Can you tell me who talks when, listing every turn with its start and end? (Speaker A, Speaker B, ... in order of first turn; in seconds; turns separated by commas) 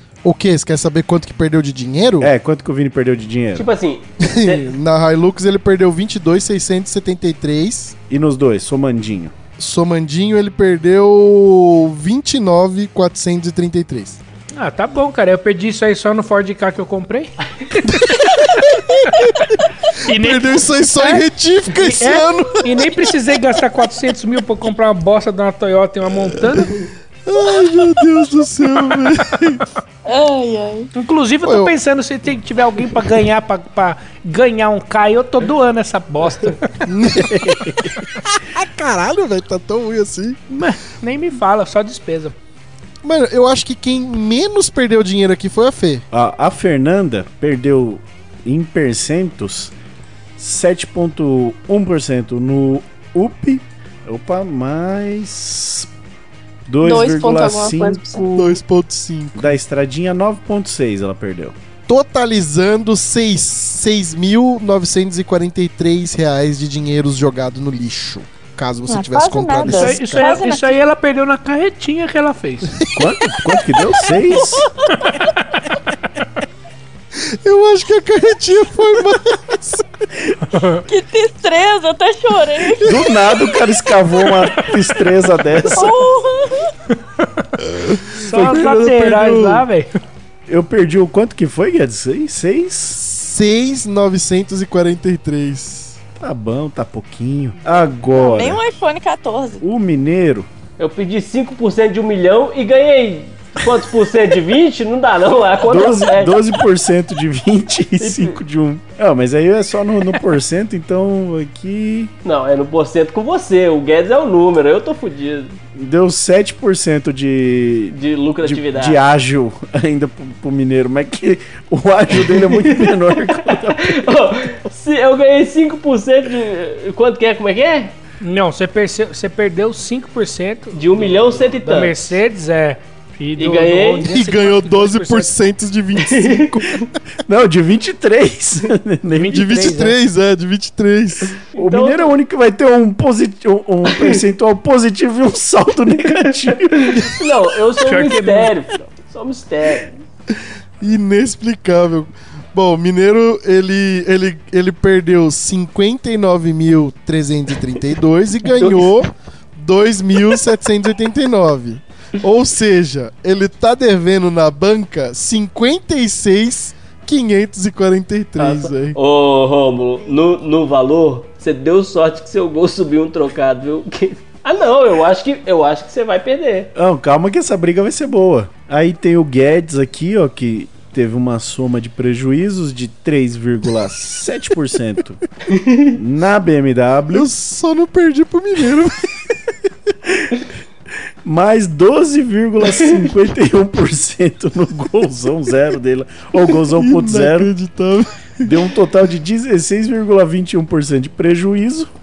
Speaker A: 0.2-2.3, Speaker B: 2.2-3.7, Speaker C: 3.5-4.7, Speaker A: 4.2-7.9, Speaker B: 8.1-9.3, Speaker A: 9.6-14.2, Speaker D: 14.6-19.3, Speaker A: 17.9-23.2, Speaker D: 19.9-26.8, Speaker A: 26.4-26.7, Speaker A: 27.2-29.6, Speaker E: 30.0-30.9, Speaker D: 30.9-36.8, Speaker A: 31.4-31.7, Speaker A: 36.9-40.4, Speaker B: 37.2-37.9, Speaker D: 40.5-42.3, Speaker A: 43.0-46.0, Speaker B: 46.1-49.7, Speaker B: 50.4-55.9, Speaker B: 56.7-58.2, Speaker E: 56.8-58.6, Speaker A: 58.3-59.6, Speaker B: 59.4-61.5, Speaker A: 61.9-70.4, Speaker E: 68.9-70.7, Speaker D: 69.6-72.9, Speaker B: 72.9-74.7, Speaker D: 75.1-75.6, Speaker A: 77.2-79.9, Speaker D: 80.4-80.8, Speaker E: 80.8-83.7, Speaker B: 82.8-86.0, Speaker E: 85.6-86.7, Speaker A: 87.6-89.7, Speaker D: 88.2-89.9, Speaker B: 90.5-93.0, Speaker A: 92.9-96.0, Speaker B: 96.2-98.6, Speaker E: 98.1-99.6, Speaker B: 99.6-100.5, Speaker C: 100.8-106.6, Speaker B: 105.6-112.1, Speaker C: 108.0-108.4, Speaker C: 112.2-115.5, Speaker B: 115.7-124.2, Speaker C: 117.9-119.0, Speaker C: 122.2-128.0, Speaker D: 128.2-135.4, Speaker C: 130.7-132.1, Speaker C: 133.4-134.1, Speaker A: 134.0-136.9, Speaker C: 136.0-136.8, Speaker B: 137.2-139.7, Speaker D: 139.1-140.0, Speaker A: 139.3-141.4, Speaker C: 141.5-142.1, Speaker B: 141.6-147.1, Speaker C: 143.9-144.2, Speaker C: 146.7-149.9, Speaker D: 147.8-148.5, Speaker A: 150.8-169.0, Speaker C: 158.5-159.0, Speaker C: 168.4-176.7, Speaker B: 176.8-185.2, Speaker C: 185.5-185.9, Speaker B: 185.9-187.3, Speaker A: 187.1-189.1, Speaker B: 191.2-197.5, Speaker A: 196.6-198.6, Speaker B: 198.4-201.9